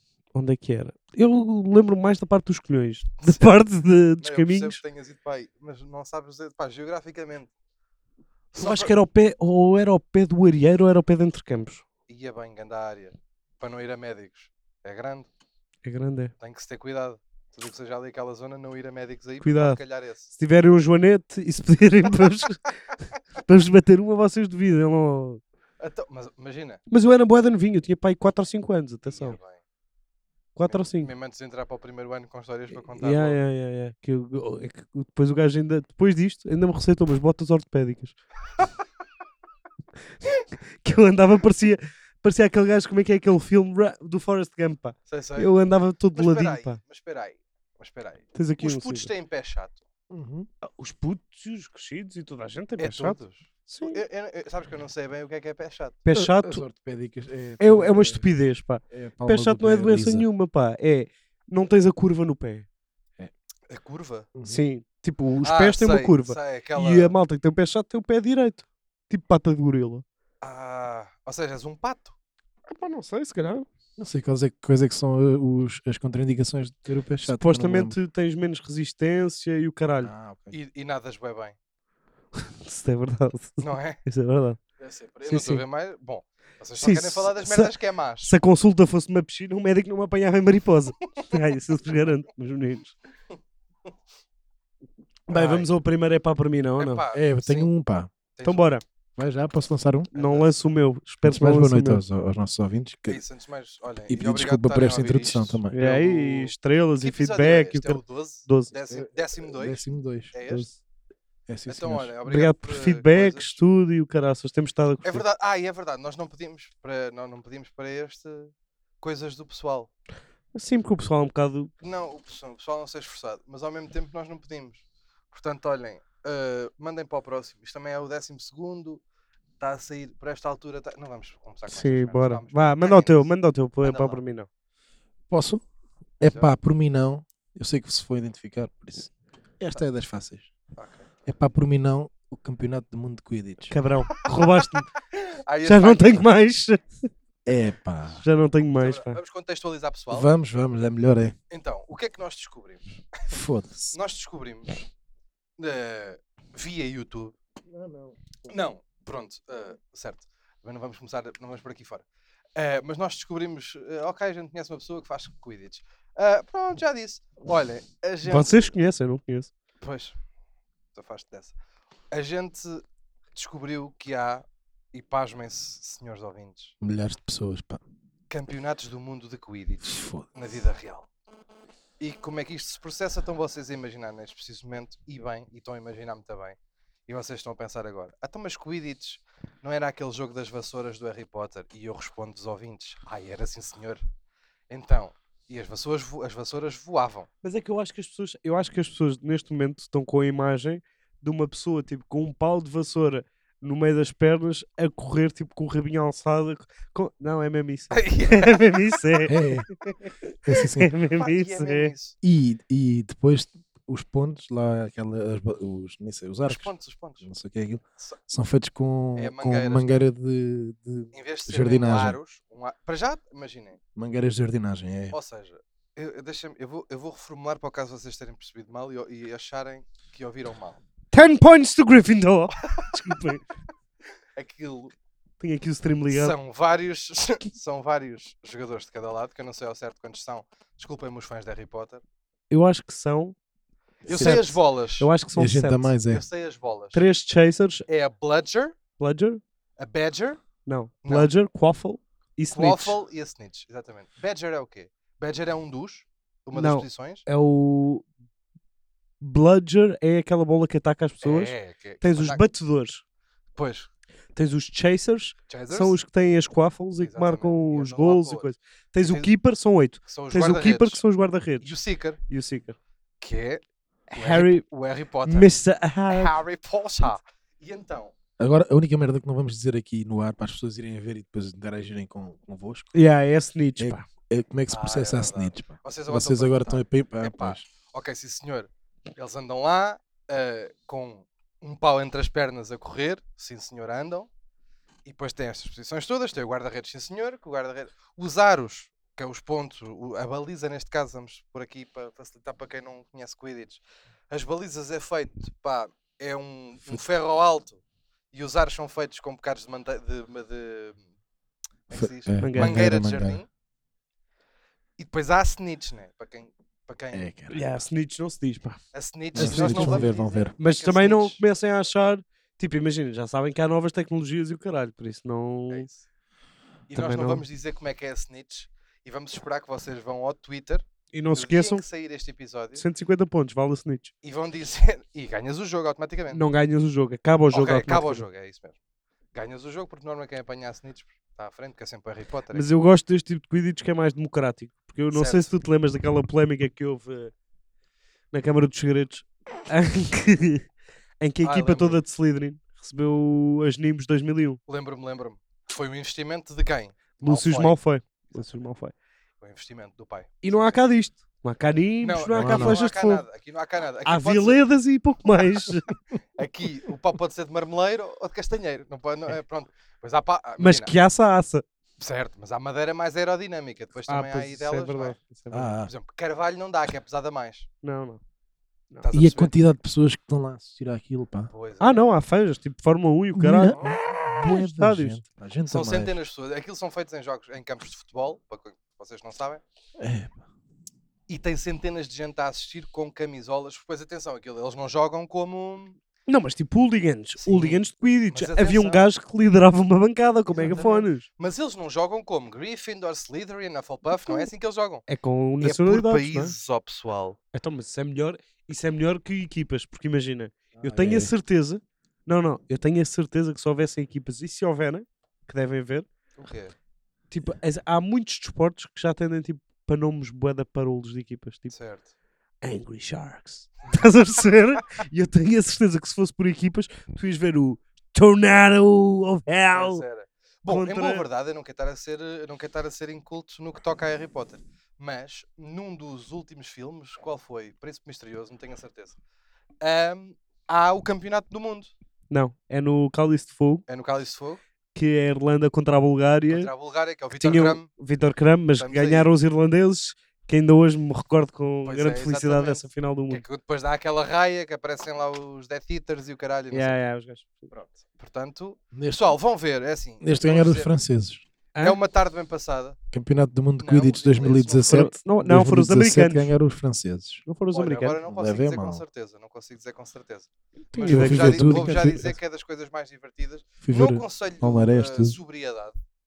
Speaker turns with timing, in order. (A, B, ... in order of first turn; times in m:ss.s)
0:00.3-0:04.8 A
0:03.2-0:03.5 B
0:04.2-0:07.5 B
0:08.6-0:08.9 B
0:08.6-0:11.8 A
0:12.1-0:15.3 B
0:15.8-0:16.3 A
0:16.4-0:20.3 B
0:19.4-0:19.8 A
0:20.4-0:25.4 A
0:25.8-0:26.8 B
0:26.9-0:29.4 A
0:29.1-0:29.6 B
0:30.6-0:31.1 A
0:30.7-0:33.4 B
0:32.9-0:38.2 A
0:40.8-0:46.8 A
0:45.1-0:45.5 B
0:46.1-0:49.8 B
0:48.3-0:49.1 A
0:50.1-0:50.5 C
0:50.6-0:54.0 A
0:52.8-0:56.0 B
0:56.0-0:56.6 A
0:56.2-0:58.2 C
0:57.6-1:02.7 A
0:58.9-1:00.3 C
1:03.7-1:04.3 B
1:04.4-1:04.6 C
1:04.5-1:10.0 A
1:05.4-1:07.2 B
1:10.4-1:12.2 B
1:12.7-1:13.7 A
1:14.0-1:18.0 C
1:17.2-1:20.1 A
1:20.0-1:20.6 C
1:20.5-1:21.6 B
1:22.4-1:24.6 A
1:23.6-1:24.0 B
1:24.8-1:28.3 B
1:25.2-1:25.6 A
1:26.8-1:27.7 A
1:28.2-1:33.0 A
1:35.3-1:37.0 A
1:35.3-1:35.7 C
1:36.8-1:37.7 B
1:37.1-1:38.1 C
1:38.4-1:38.7 B
1:38.4-1:38.8 A
1:39.2-1:40.1 C
1:40.1-1:40.6 B
1:40.1-1:42.0 A
1:41.2-1:43.2 C
1:43.1-1:50.7 B
1:44.1-1:45.8 C
1:45.7-1:48.7 A
1:48.9-1:50.3 C
1:50.5-1:50.8 A
1:51.5-1:52.1 C
1:51.7-1:53.5 B
1:52.3-1:55.2 A
1:55.0-1:59.9 B
2:00.5-2:01.7 A
2:01.8-2:09.0 B
2:09.6-2:13.3 B
2:11.7-2:14.5 A
2:13.8-2:14.2 B
2:15.3-2:15.6 C
2:16.2-2:20.5 C
2:16.2-2:16.5 B
2:20.8-2:21.1 B
2:21.3-2:23.7 C
2:23.7-2:24.9 A
2:24.3-2:26.3 B
2:25.6-2:27.0 A
2:27.4-2:28.2 C
2:28.2-2:29.2 A
2:28.8-2:30.3 B
2:30.1-2:31.4 C
2:31.5-2:33.2 B
2:33.3-2:33.9 C
2:33.9-2:34.8 B
2:35.6-2:37.4 B
2:37.7-2:38.6 C
2:38.5-2:42.0 B
2:42.6-2:48.7 B
2:48.2-2:49.5 A
2:49.8-2:50.2 B
2:51.0-2:51.6 B
2:52.1-2:52.8 B
2:53.4-2:56.8 B
2:56.8-2:57.8 C
2:58.3-3:01.1 B
2:59.8-3:00.2 C
3:02.0-3:14.0 B
3:14.7-3:17.3 B
3:17.4-3:30.1 A
3:27.9-3:29.2 B
3:29.3-3:29.7 C
3:30.4-3:30.9 C
3:30.8-3:31.9 A
3:31.1-3:32.2 B
3:32.2-3:36.7 C
3:36.5-3:37.3 B
3:37.2-3:42.2 C
3:39.2-3:39.9 B
3:41.1-3:43.8 B
3:44.0-3:45.2 C
3:45.1-3:50.8 B
3:51.1-3:53.4 A
3:54.4-3:54.9 B
3:55.4-3:56.4 A
3:56.1-4:02.0 B
4:02.5-4:03.4 A
4:04.1-4:04.6 C
4:04.1-4:05.1 B
4:04.2-4:05.9 A
4:05.4-4:06.2 C
4:06.1-4:07.0 B
4:06.9-4:07.9 A
4:07.9-4:08.8 B
4:09.0-4:09.4 A
4:09.8-4:10.4 B
4:10.7-4:13.0 A
4:11.0-4:11.3 B
4:12.6-4:17.2 B
4:16.6-4:18.1 A
4:19.2-4:23.0 A
4:21.2-4:22.4 B
4:23.6-4:23.9 B
4:24.4-4:31.7 A
4:25.5-4:26.0 B
4:27.0-4:28.5 B
4:29.1-4:29.3 B
4:30.1-4:31.0 B
4:31.6-4:32.2 B
4:32.3-4:32.8 A
4:33.2-4:33.6 B
4:34.1-4:34.6 A
4:34.2-4:35.5 B
4:35.3-4:36.4 A
4:36.1-4:38.1 B
4:38.4-4:42.9 C
4:42.9-4:44.1 A
4:43.8-4:47.6 C
4:44.7-4:54.3 B
4:55.0-5:07.8 B
5:08.3-5:11.0 B
5:11.9-5:13.5 B
5:11.9-5:13.4 C
5:12.4-5:12.8 A
5:15.0-5:17.3 B
5:17.1-5:17.6 C
5:17.5-5:18.8 A
5:18.9-5:21.4 B
5:19.4-5:20.5 C
5:19.4-5:25.9 A
5:25.7-5:26.0 B
5:26.9-5:32.8 B
5:26.9-5:27.4 A
5:31.1-5:31.8 A
5:32.8-5:34.1 A
5:34.2-5:36.4 B
5:36.3-5:38.2 A
5:37.5-5:38.8 B
5:39.3-5:42.7 B
5:42.5-5:47.3 A
5:45.1-5:45.5 B
5:48.3-5:50.7 A
5:51.2-5:54.6 A
5:51.4-5:52.0 B
5:54.7-5:57.8 B
5:57.2-5:58.9 A
5:59.4-6:00.8 B
6:00.4-6:03.2 A
6:02.0-6:04.6 B
6:02.3-6:02.8 C
6:04.0-6:05.9 A
6:06.4-6:10.9 B
6:10.6-6:11.6 A
6:12.0-6:15.2 B
6:14.1-6:15.8 A
6:15.5-6:15.9 C
6:15.8-6:17.7 B
6:17.8-6:18.2 A
6:18.9-6:19.2 A
6:19.0-6:19.5 B
6:19.1-6:21.5 C
6:21.5-6:22.0 B
6:21.8-6:23.8 A
6:23.3-6:26.2 C
6:23.7-6:24.0 B
6:24.4-6:25.2 A
6:25.7-6:29.6 B
6:30.0-6:30.4 C
6:31.3-6:36.0 B
6:36.3-6:41.3 A
6:37.4-6:39.1 B
6:40.5-6:45.1 B
6:44.2-6:44.5 A
6:45.1-6:46.6 A
6:45.6-6:47.4 B
6:47.5-6:56.1 A
6:50.8-6:51.3 C
6:56.4-6:56.7 B
6:57.3-7:01.8 A
7:01.7-7:02.1 B
7:02.6-7:10.0 A
7:09.7-7:19.2 B
7:10.7-7:11.3 A
7:19.8-7:21.9 B
7:22.3-7:23.8 A
7:23.9-7:24.6 B
7:25.0-7:26.7 A
7:26.5-7:27.9 B
7:27.4-7:33.4 A
7:28.8-7:29.3 B
7:31.8-7:37.0 B
7:36.7-7:37.7 A
7:37.7-7:40.9 B
7:38.9-7:39.4 C
7:40.2-7:41.4 C
7:41.8-7:43.0 B
7:43.1-7:47.4 C
7:43.8-7:45.0 B
7:44.9-7:46.5 A
7:47.5-7:48.2 A
7:47.7-7:56.0 B
7:48.2-7:49.0 C
7:51.0-7:52.2 A
7:51.0-7:52.4 C
7:53.8-7:55.4 C